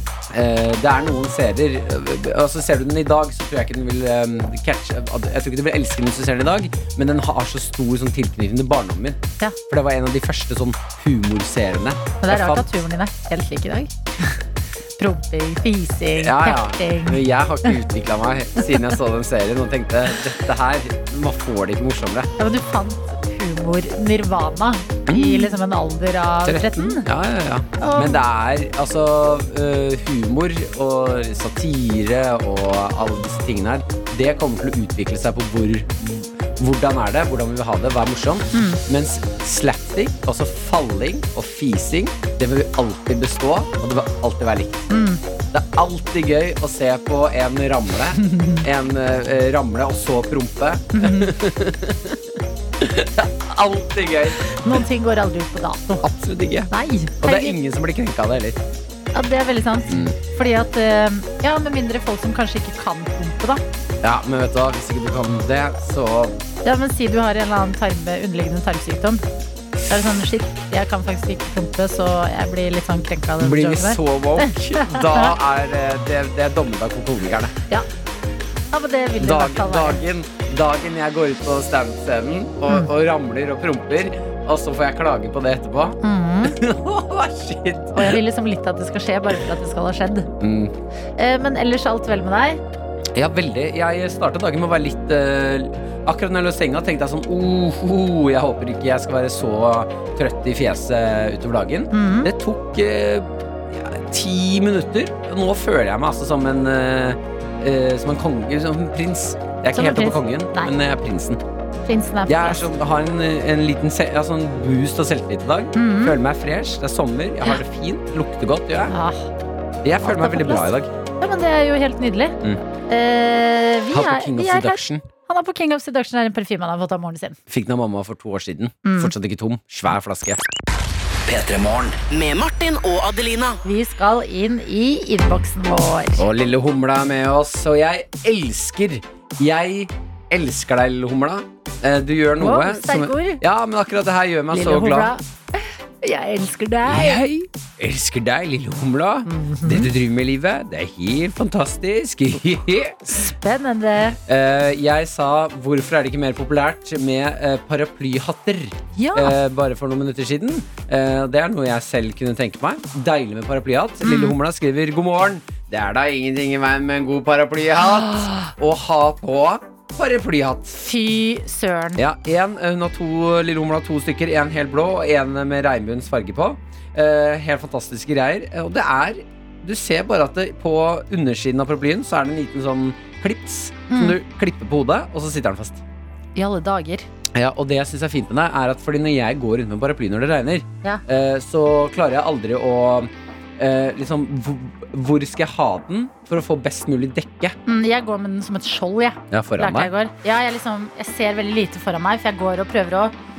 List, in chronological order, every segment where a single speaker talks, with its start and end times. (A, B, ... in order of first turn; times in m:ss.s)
0:00.3-0:12.8 A
0:12.2-0:14.4 B
0:15.0-0:17.8 B
0:16.2-0:22.3 A
0:22.4-0:27.1 B
0:25.1-0:25.6 A
0:26.5-0:44.9 A
0:27.8-0:28.2 B
0:38.5-0:38.8 B
0:44.9-0:45.2 B
0:45.5-0:52.2 A
0:48.2-0:48.6 B
0:51.0-0:51.4 B
0:52.8-0:54.8 A
0:54.6-0:56.0 B
0:56.0-0:56.7 A
0:56.7-0:57.6 B
0:57.2-0:58.6 A
0:59.1-1:03.6 B
0:59.9-1:00.2 A
1:04.0-1:06.4 A
1:06.6-1:09.2 B
1:09.9-1:15.3 B
1:13.4-1:17.5 A
1:18.7-1:20.0 B
1:19.2-1:28.2 A
1:26.0-1:26.6 B
1:27.9-1:30.3 B
1:30.4-1:30.7 A
1:31.2-1:32.6 B
1:33.1-1:51.4 A
1:41.9-1:42.3 B
1:49.7-1:50.7 B
1:51.9-1:52.7 B
1:52.3-1:58.9 A
1:55.8-1:56.2 B
1:58.9-1:59.3 B
1:59.8-2:00.9 A
2:00.0-2:02.4 B
2:02.9-2:07.4 B
2:03.9-2:05.0 A
2:07.5-2:10.4 A
2:08.8-2:09.1 B
2:11.3-2:13.6 C
2:13.6-2:16.2 B
2:16.2-2:25.1 A
2:22.4-2:23.4 B
2:24.5-2:27.2 B
2:26.9-2:33.2 A
2:29.3-2:29.9 B
2:33.1-2:34.2 B
2:34.3-2:50.8 A
2:39.0-2:39.4 B
2:44.0-2:44.4 B
2:48.2-2:48.5 B
2:50.8-2:52.0 B
2:52.0-3:05.8 A
3:03.9-3:04.2 B
3:06.4-3:07.1 B
3:07.3-3:17.6 A
3:17.7-3:23.1 B
3:19.3-3:19.9 A